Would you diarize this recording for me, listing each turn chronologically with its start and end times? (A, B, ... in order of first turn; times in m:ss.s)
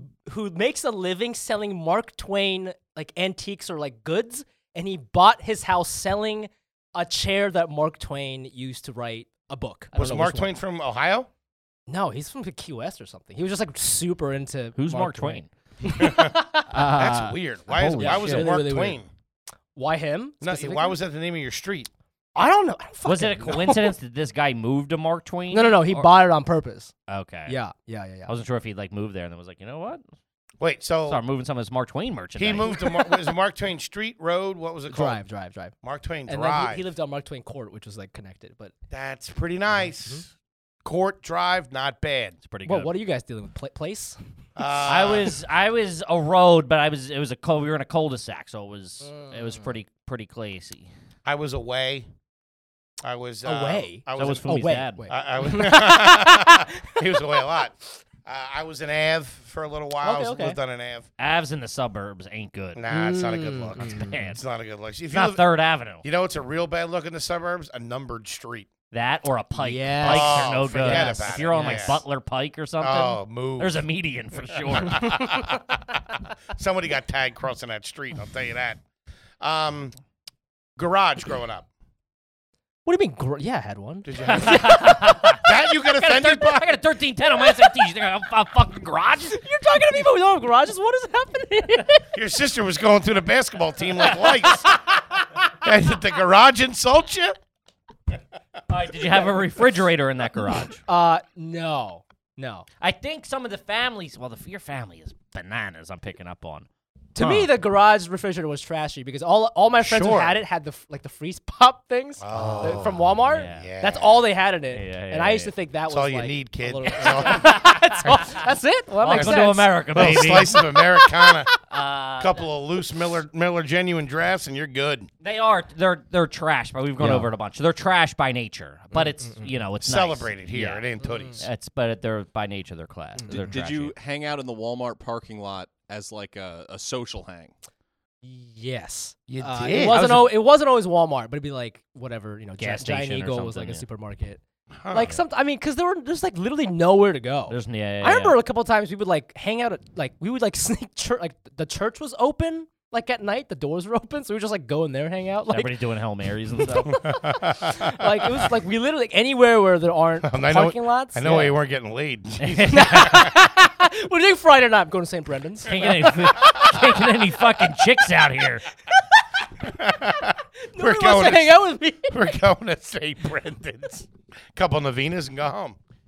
0:00.2-0:10.6 A
0:09.9-0:11.3 B
0:11.9-0:16.7 A
0:14.8-0:15.5 C
0:15.9-0:19.1 B
0:16.7-0:18.5 C
0:18.0-0:19.0 A
0:19.7-0:21.0 A
0:20.4-0:21.9 B
0:22.4-0:23.9 A
0:23.0-0:26.1 C
0:25.5-0:26.9 A
0:27.1-0:27.5 C
0:27.5-0:28.3 A
0:28.3-0:30.0 C
0:30.6-0:31.2 B
0:31.1-0:32.8 C
0:32.4-0:35.2 B
0:32.6-0:33.2 A
0:34.9-0:35.7 A
0:35.8-0:36.8 B
0:36.3-0:38.7 A
0:38.9-0:40.3 B
0:40.8-0:42.4 B
0:42.4-0:42.9 C
0:42.6-0:44.2 A
0:44.6-0:45.4 B
0:44.8-0:50.9 C
0:49.0-0:49.6 A
0:51.2-0:52.0 B
0:53.0-1:01.1 B
0:53.4-0:57.2 A
0:54.2-0:55.0 C
1:00.0-1:00.6 A
1:01.2-1:02.8 C
1:02.8-1:05.4 B
1:02.9-1:04.2 A
1:03.8-1:04.4 C
1:05.1-1:06.0 C
1:06.0-1:08.7 B
1:08.9-1:15.3 C
1:09.6-1:12.0 A
1:10.0-1:12.0 B
1:12.8-1:13.8 B
1:14.7-1:15.8 B
1:16.5-1:18.8 B
1:19.4-1:19.9 B
1:20.8-1:21.7 B
1:22.8-1:25.4 A
1:24.0-1:24.8 B
1:24.3-1:29.4 C
1:25.4-1:26.7 B
1:29.3-1:32.0 A
1:32.1-1:34.7 B
1:35.6-1:37.4 B
1:38.7-1:40.8 C
1:40.8-1:42.6 A
1:42.8-1:46.7 C
1:47.1-2:01.4 A
1:47.2-1:47.5 B
1:49.8-1:50.4 B
1:52.2-1:54.2 B
1:52.3-1:53.7 C
1:54.7-1:55.5 C
1:55.9-1:58.2 B
1:57.1-1:58.2 C
1:59.0-2:00.6 C
1:59.1-2:01.5 B
2:01.7-2:02.4 C
2:02.2-2:05.1 B
2:05.2-2:10.8 C
2:07.0-2:07.3 A
2:08.9-2:09.5 A
2:09.8-2:11.4 B
2:11.0-2:11.4 A
2:11.4-2:13.9 C
2:13.2-2:13.5 A
2:13.3-2:17.5 D
2:18.2-2:35.7 A
2:19.3-2:20.3 B
2:22.6-2:23.8 C
2:24.8-2:25.1 B
2:27.5-2:28.4 C
2:35.5-2:36.9 C
2:36.7-2:41.5 A
2:36.9-2:38.2 B
2:40.2-2:43.3 B
2:42.4-2:43.2 C
2:42.7-2:47.2 A
2:45.6-2:48.6 C
2:48.9-2:49.2 A
2:49.6-2:55.8 B
2:50.7-2:52.2 A